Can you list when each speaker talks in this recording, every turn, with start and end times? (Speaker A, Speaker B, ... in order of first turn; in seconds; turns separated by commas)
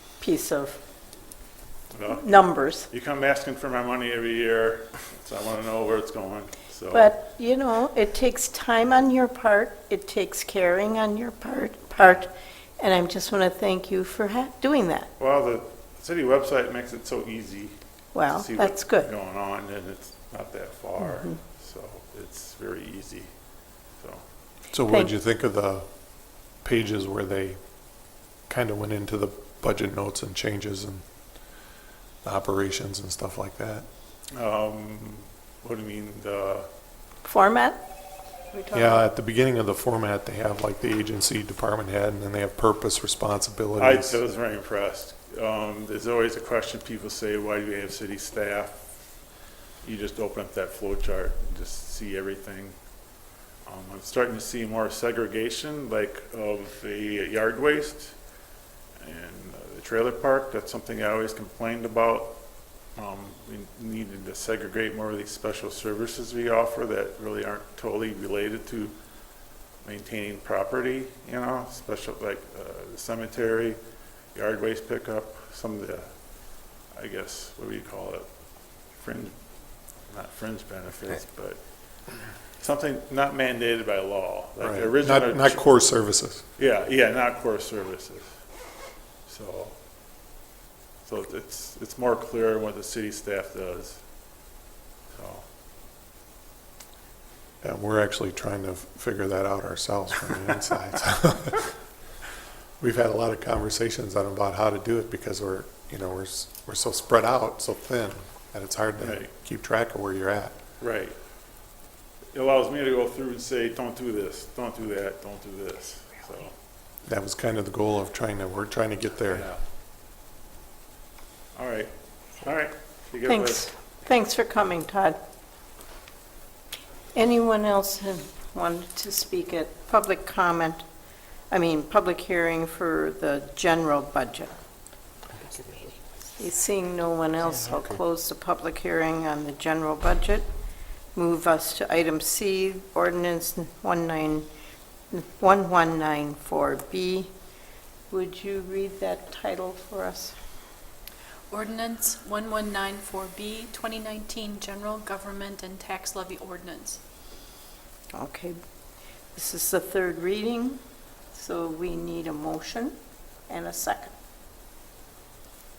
Speaker A: 0.2-0.8, Speaker B: 1.9-7.0, Speaker A: 2.1-2.9, Speaker A: 6.9-15.1, Speaker B: 15.2-17.8, Speaker A: 18.1-19.1, Speaker B: 18.3-23.3, Speaker A: 21.0-21.4, Speaker B: 23.9-24.2, Speaker C: 24.7-31.0, Speaker C: 32.2-33.9, Speaker B: 34.3-36.7, Speaker A: 37.2-37.8, Speaker A: 38.5-39.1, Speaker C: 38.7-44.2, Speaker B: 43.8-48.8, Speaker B: 49.8-52.8, Speaker B: 53.6-58.1, Speaker B: 59.0-62.4, Speaker B: 62.9-69.0, Speaker B: 69.8-73.8, Speaker B: 74.3-85.7, Speaker C: 84.6-86.5, Speaker B: 86.5-89.8, Speaker B: 91.0-94.3, Speaker B: 95.1-95.5, Speaker C: 97.6-101.7, Speaker C: 102.8-110.5, Speaker B: 109.0-109.3, Speaker B: 110.8-111.2, Speaker B: 112.3-116.5, Speaker C: 117.1-119.4, Speaker B: 119.3-119.6, Speaker B: 121.5-123.7, Speaker A: 123.3-125.2, Speaker A: 127.1-130.8, Speaker A: 131.5-134.5, Speaker A: 136.4-140.5, Speaker A: 141.1-144.5, Speaker A: 145.1-147.3, Speaker A: 148.1-150.3, Speaker D: 151.5-157.0, Speaker A: 158.1-158.6, Speaker A: 159.3-160.8, Speaker A: 161.3-163.0, Speaker A: 163.5-164.1